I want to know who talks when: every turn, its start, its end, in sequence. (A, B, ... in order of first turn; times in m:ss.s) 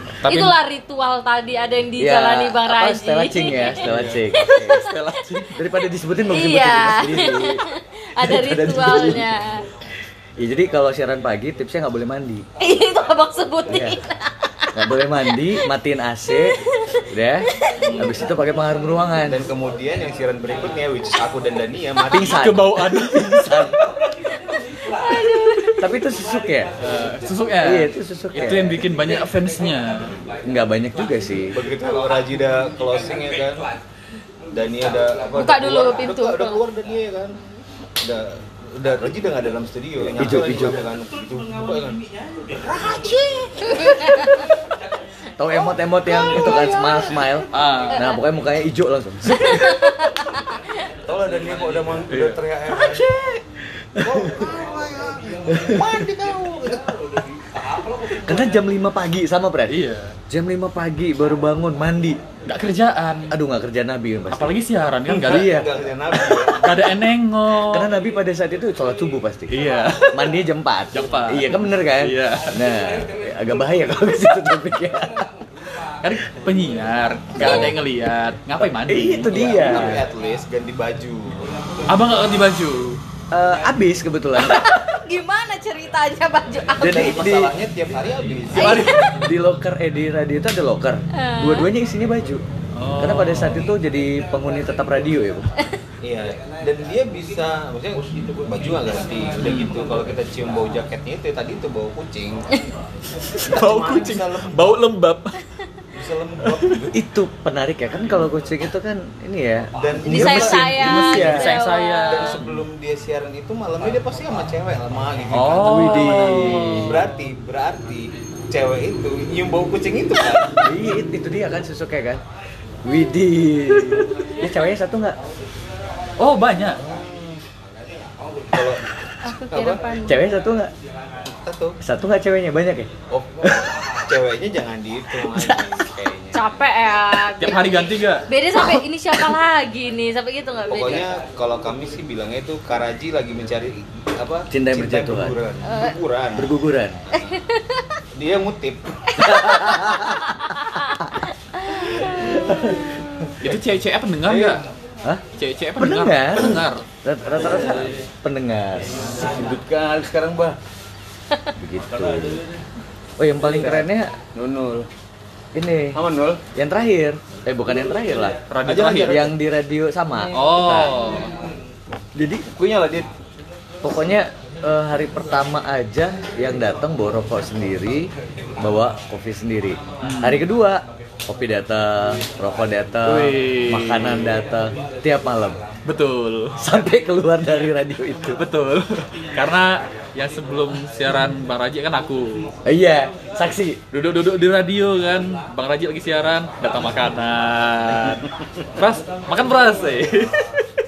0:00.2-0:00.5 A
0:00.2-0:04.9 B
0:02.0-0:04.9 C
0:03.8-0:05.6 A
0:05.5-0:07.6 C
0:06.3-0:09.6 B
0:08.2-0:09.3 C
0:10.4-0:12.4 C
0:12.6-0:15.6 B
0:13.7-0:14.0 C
0:14.7-0:19.5 C
0:16.4-0:17.0 B
0:17.8-0:18.2 D
0:19.2-0:22.4 D
0:22.1-0:23.8 C
0:22.1-0:23.8 A
0:25.0-0:25.7 B
0:25.8-0:26.7 C
0:26.8-0:30.1 A
0:27.6-0:28.8 C
0:30.4-0:31.6 C
0:31.5-0:33.6 D
0:34.5-0:37.4 D
0:35.4-0:36.6 B
0:38.0-0:42.0 D
0:40.0-0:40.8 C
0:42.5-0:44.2 D
0:43.8-0:44.4 B
0:45.4-0:49.7 C
0:46.3-0:47.0 D
0:46.3-0:47.1 B
0:47.5-0:48.1 A
0:47.9-0:48.2 B
0:49.5-0:50.4 B
0:51.0-0:53.0 D
0:52.1-0:52.4 A
0:52.7-0:53.4 C
0:53.9-0:54.4 C
0:54.0-0:57.0 D
0:55.5-0:56.0 C
0:58.2-1:02.2 C
0:59.7-1:00.2 A
1:02.4-1:03.3 A
1:03.3-1:04.6 C
1:04.3-1:07.9 A
1:05.1-1:06.9 D
1:05.1-1:05.7 C
1:07.6-1:09.5 C
1:09.5-1:10.4 A
1:10.1-1:15.3 C
1:10.9-1:12.6 A
1:16.0-1:19.6 A
1:17.3-1:17.8 C
1:18.6-1:20.1 C
1:19.3-1:21.5 D
1:21.9-1:23.0 A
1:23.3-1:24.8 C
1:24.4-1:27.2 B
1:26.8-1:27.5 C
1:26.8-1:28.8 D
1:28.5-1:29.2 A
1:28.6-1:29.2 B
1:28.8-1:32.4 C
1:31.1-1:31.7 B
1:32.7-1:33.7 A
1:33.0-1:35.5 C
1:36.0-1:42.4 D
1:39.4-1:39.7 A
1:43.4-1:45.4 A
1:43.4-1:44.7 D
1:45.9-1:47.0 D
1:46.9-1:51.5 C
1:49.7-1:51.3 D
1:50.0-1:52.4 B
1:50.6-1:52.6 A
1:52.0-2:00.6 D
1:55.3-1:57.0 A
1:55.6-1:57.0 C
2:00.6-2:02.2 C
2:02.8-2:05.2 C
2:06.2-2:06.8 A
2:06.8-2:07.4 D
2:08.5-2:09.8 D
2:09.2-2:10.2 B
2:10.0-2:10.7 C
2:11.3-2:11.8 D
2:11.8-2:12.9 C
2:13.1-2:16.6 D
2:15.1-2:15.9 C
2:16.3-2:21.1 B
2:17.3-2:18.3 A
2:18.5-2:19.3 C
2:20.7-2:26.6 D
2:24.5-2:25.4 C
2:25.6-2:26.0 B
2:26.3-2:27.0 C
2:27.1-2:28.0 B
2:28.1-2:29.4 D
2:29.2-2:33.3 B
2:29.2-2:31.2 C
2:32.1-2:33.3 C
2:33.4-2:34.6 A
2:34.2-2:34.6 D
2:35.4-2:36.8 A
2:35.8-2:39.1 C
2:39.0-2:40.6 D
2:41.6-2:42.4 C
2:43.2-2:44.1 C
2:43.4-2:44.9 D
2:45.5-2:46.0 C
2:45.9-2:46.4 D
2:46.5-2:48.4 C
2:48.5-2:49.3 A
2:48.6-2:49.3 D
2:49.0-2:50.9 C
2:50.3-2:51.3 A
2:52.2-2:52.4 C
2:52.5-2:53.1 D
2:53.8-2:58.1 C
2:58.6-3:05.6 C
3:00.0-3:00.4 A
3:03.0-3:04.4 A
3:05.8-3:06.6 A
3:06.6-3:08.4 C
3:08.4-3:12.5 A
3:12.6-3:13.8 C
3:13.9-3:20.7 A